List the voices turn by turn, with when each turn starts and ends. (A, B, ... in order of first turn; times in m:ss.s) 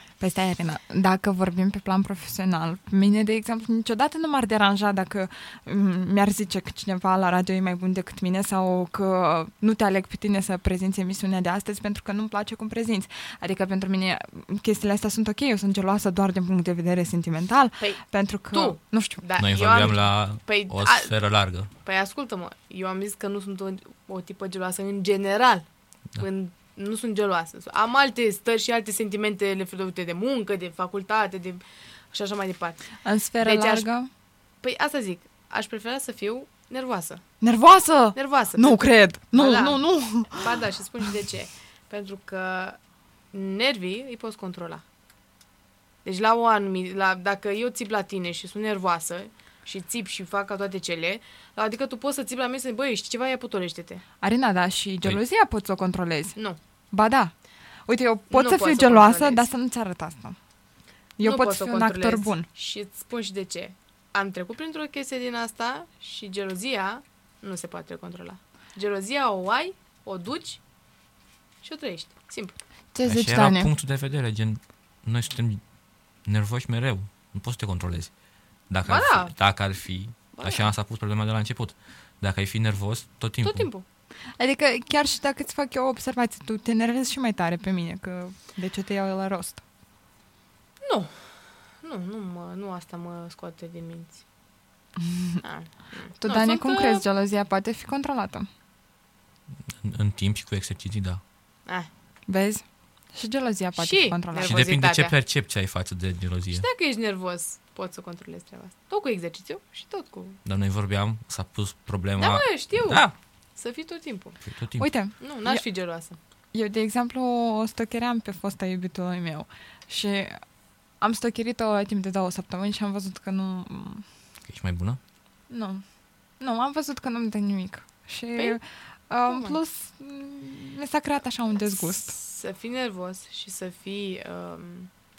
0:00.2-0:19.2 A
0:17.8-0:21.1 B
0:19.4-0:21.7 C
0:21.8-0:25.7 B
0:26.2-0:32.8 B
0:33.0-0:34.1 A
0:33.4-0:33.9 B
0:34.6-0:37.2 B
0:37.4-0:40.6 A
0:38.2-0:42.8 B
0:43.3-0:44.8 B
0:46.0-0:54.0 B
0:54.2-0:56.4 A
0:56.9-0:57.3 A
0:57.9-1:00.4 A
0:58.3-0:59.5 B
1:01.2-1:02.5 A
1:01.2-1:10.6 B
1:11.6-1:12.6 B
1:12.9-1:13.7 A
1:13.1-1:15.6 C
1:16.2-1:18.1 C
1:18.7-1:23.7 C
1:18.9-1:19.3 B
1:20.4-1:20.7 B
1:23.4-1:23.8 B
1:24.4-1:29.6 A
1:30.8-1:31.2 B
1:31.8-1:34.2 B
1:35.0-1:35.4 A
1:35.4-1:37.0 B
1:36.2-1:38.5 A
1:39.6-1:41.2 C
1:42.3-1:44.6 A
1:43.8-1:45.1 B
1:44.4-1:46.6 C
1:46.5-1:50.4 B
1:50.4-1:53.1 C
1:52.2-1:53.0 B
1:53.6-1:54.4 B
1:54.4-1:54.9 C
1:54.8-1:55.6 A
1:55.2-1:56.2 B
1:56.5-2:00.4 A
2:01.0-2:04.1 A
2:04.5-2:05.0 C
2:05.5-2:05.8 A
2:06.4-2:12.2 A
2:09.3-2:09.6 B
2:11.9-2:14.9 B